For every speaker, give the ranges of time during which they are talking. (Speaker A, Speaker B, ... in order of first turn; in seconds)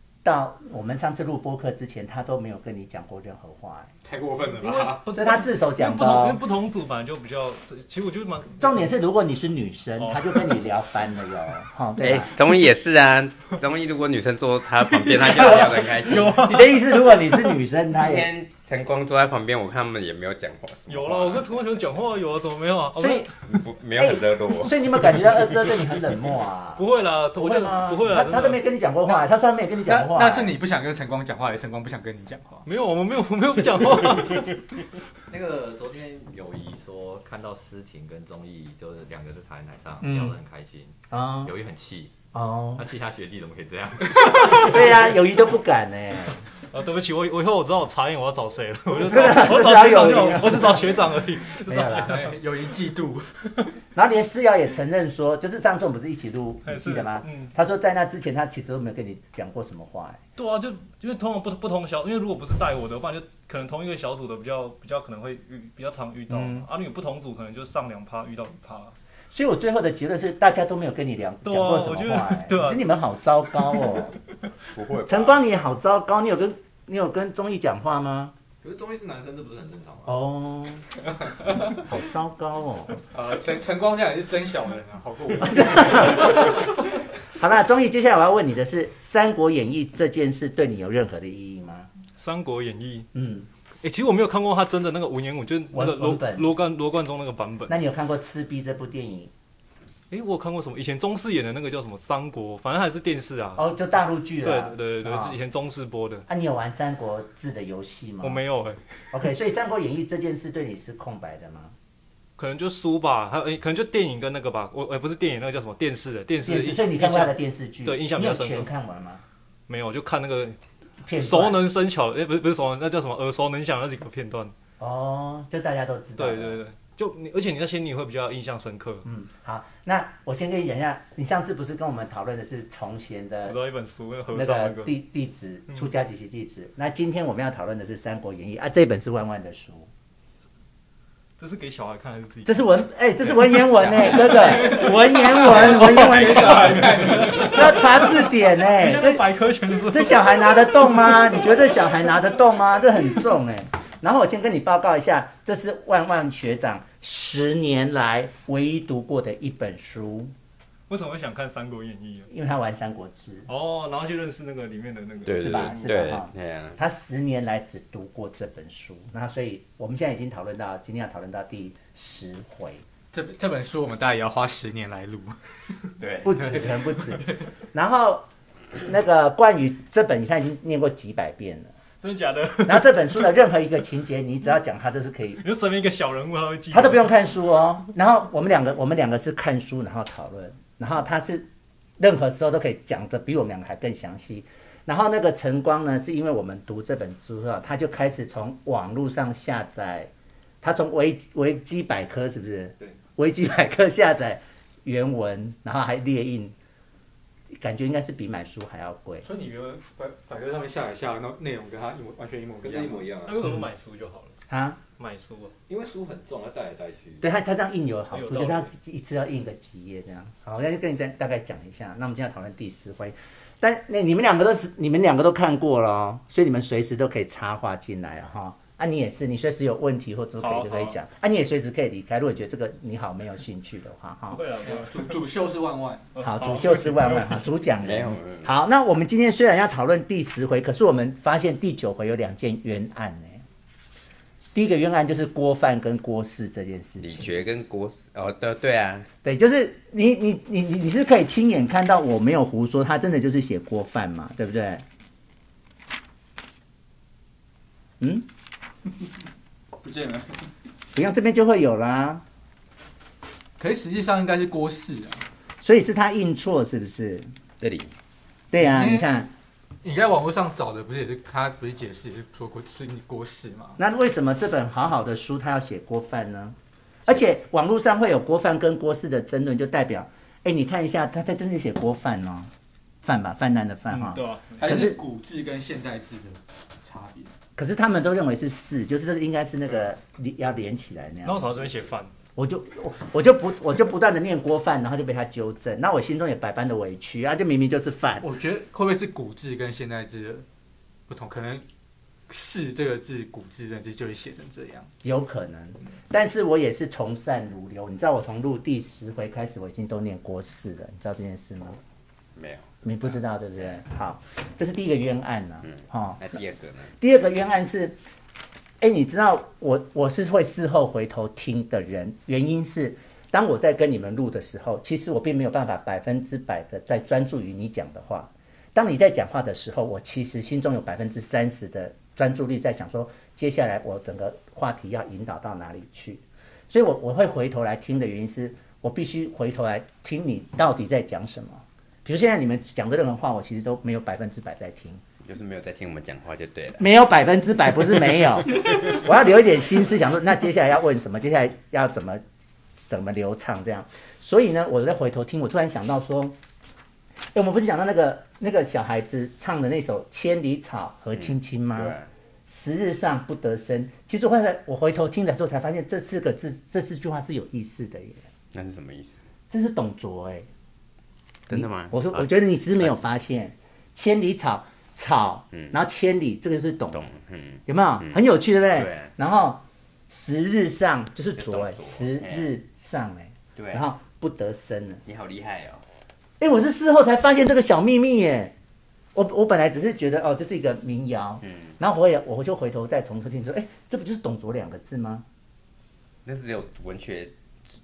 Speaker A: 0.2-3.9, 5.1-6.4, 8.6-12.3, 15.4-18.3, 22.9-23.3, 23.9-30.6, 40.0-40.4, 41.1-41.5, 42.3-42.8, 44.4-46.4, 49.0-51.0, 51.6-52.2, 53.9-60.2, 66.3-66.7, 69.3-74.2, 75.0-78.3, 80.0-80.8, 81.8-83.0, 85.4-86.6, 87.3-91.9, 93.1-93.5, 95.7-96.5, 97.7-99.3, 103.5-105.3, 106.3-108.4, 109.1-111.7, 116.4-119.2, 121.0-121.6, 124.8-126.6, 129.0-133.6, 134.3-139.9, 142.4-149.2, 149.9-160.3, 162.3-163.5, 165.3-172.8, 176.2-178.2, 178.8-181.7, 182.7-185.4, 186.7-191.5, 192.0-200.1, 200.6-206.5, 207.5-209.2, 214.5-214.8, 217.2-234.4, 236.2-243.4, 244.5-247.4, 249.2-254.8, 258.0-258.3, 260.9-262.2, 265.6-267.3, 268.5-269.3, 273.8-282.5, 283.0-285.0, 287.6-291.5, 292.4-298.3, 305.0-311.8, 312.8-316.3, 317.0-318.0, 318.8-345.0, 346.8-352.2, 352.7-356.4, 357.3-368.2, 369.5-370.5, 371.5-377.1, 377.6-385.0, 386.4-388.5, 389.1-395.2
Speaker B: 4.0-5.1, 29.9-32.7, 51.9-53.7, 83.1-86.7, 144.2-147.9, 173.1-175.4, 176.5-177.2, 209.2-213.1, 234.6-236.1, 259.8-260.4, 263.6-265.2, 268.6-269.1, 269.8-273.8, 284.6-287.3, 298.2-300.4, 301.1-301.6, 302.3-304.9
Speaker C: 4.5-8.8, 10.0-10.6, 14.9-17.4, 20.9-23.3, 26.8-28.6, 32.6-34.6, 46.7-52.3, 56.6-57.5, 60.4-68.9, 71.4-72.8, 92.2-93.1, 93.8-97.8, 100.1-103.7, 104.4-106.2, 108.2-108.9, 112.4-118.7, 119.7-120.6, 121.2-124.5, 126.2-129.1, 133.5-134.9, 141.4-142.6, 143.8-152.1, 160.9-162.3, 163.5-166.0, 182.0-183.0, 185.4-187.1, 213.2-214.4, 215.0-215.5, 218.1-218.7, 230.4-231.0, 234.3-235.2, 236.1-237.4, 283.9-284.8, 291.2-292.1
Speaker D: 12.0-16.6, 17.9-21.5, 23.5-24.7, 74.8-75.3, 165.2-166.8, 237.8-238.5, 247.0-249.1, 267.6-267.9, 312.4-313.8, 315.6-316.9, 345.2-346.8, 361.2-362.1, 368.5-369.2, 371.5-372.3, 376.9-378.2, 378.8-379.1, 381.4-382.5, 383.6-383.8, 385.1-385.8, 391.4-391.7, 396.2-397.3
Speaker E: 35.3-42.1, 42.8-45.1, 78.6-80.2, 212.6-213.4, 215.7-217.2